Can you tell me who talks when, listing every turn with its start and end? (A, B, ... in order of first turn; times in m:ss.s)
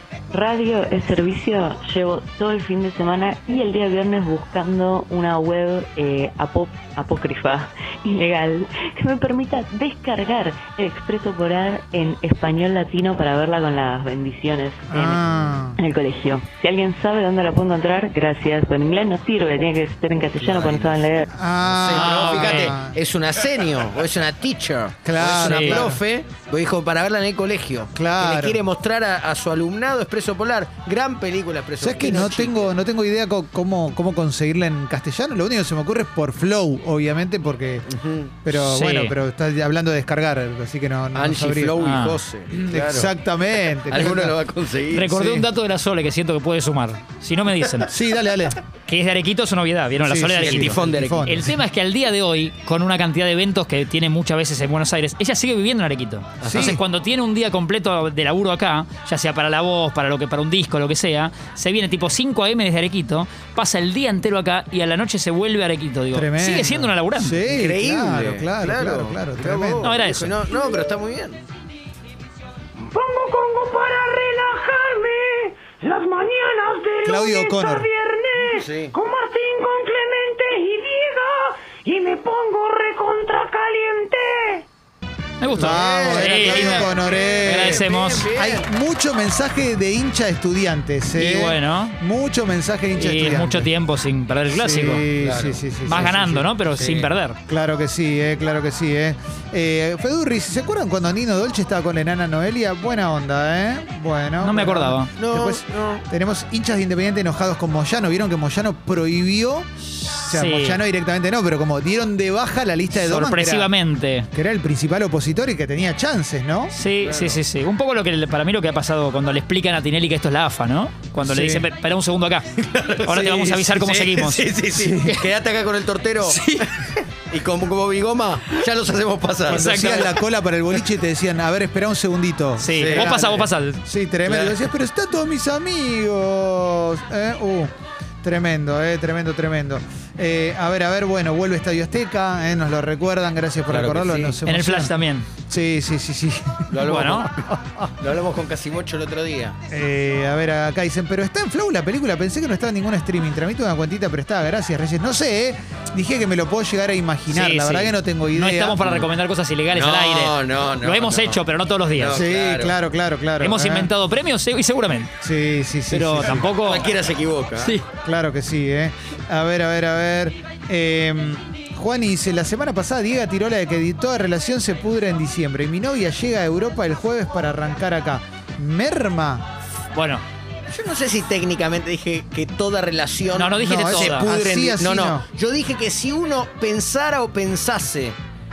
0:00.3-0:15.2 A
0:14.9-0:15.8 B
0:15.8-0:21.3 A
0:20.2-0:21.1 C
0:21.3-0:23.0 B
0:21.7-0:32.7 C
0:22.0-0:22.8 D
0:25.0-0:26.0 B
0:25.3-0:25.9 D
0:27.9-0:28.6 B
0:31.8-0:37.9 B
0:37.9-0:38.4 C
0:38.4-0:41.8 B
0:38.5-0:39.2 D
0:41.1-0:43.1 C
0:41.8-0:42.2 D
0:42.5-0:44.4 B
0:43.9-0:45.1 C
0:44.9-0:48.0 D
0:45.0-0:45.5 B
0:47.9-0:48.6 B
0:48.9-1:07.4 D
0:50.0-0:51.6 B
0:50.4-0:51.4 C
0:56.4-0:56.8 C
0:56.5-0:56.8 B
1:06.1-1:10.3 B
1:07.5-1:11.4 C
1:09.8-1:10.4 D
1:12.9-1:24.6 E
1:17.0-1:17.9 B
1:18.4-1:19.0 C
1:25.4-1:28.3 D
1:25.5-1:33.7 B
1:25.6-1:28.7 C
1:31.2-1:32.0 D
1:33.0-1:35.1 D
1:34.5-1:36.5 B
1:35.2-1:35.7 C
1:35.8-1:37.4 D
1:36.7-1:37.1 C
1:37.5-1:49.7 B
1:44.4-1:45.1 D
1:45.2-1:46.0 C
1:50.2-1:50.8 D
1:50.2-1:53.7 B
1:52.9-1:54.3 D
1:54.3-1:56.7 B
1:56.7-2:02.5 D
1:57.0-1:57.4 C
2:01.2-2:01.7 B
2:02.6-2:06.7 C
2:03.0-2:04.6 D
2:04.8-2:05.2 B
2:06.3-2:06.6 D
2:07.3-2:10.2 C
2:09.5-2:17.7 B
2:09.5-2:10.1 D
2:12.6-2:13.8 D
2:12.7-2:13.5 C
2:14.2-2:14.6 C
2:18.2-2:25.0 B
2:23.7-2:24.4 C
2:24.4-2:25.3 D
2:25.5-2:27.9 B
2:26.7-2:27.3 C
2:26.8-2:27.3 D
2:28.0-2:29.6 C
2:29.7-2:38.9 B
2:37.3-2:42.3 D
2:39.7-2:41.4 C
2:41.9-2:42.8 C
2:42.1-2:43.9 B
2:43.4-2:45.1 D
2:45.2-2:46.5 B
2:45.9-2:46.9 D
2:46.2-2:47.7 C
2:47.6-2:47.8 D
2:48.0-2:59.5 B
2:59.9-3:00.2 D
3:00.7-3:08.2 C
3:03.3-3:04.3 D
3:03.6-3:05.2 B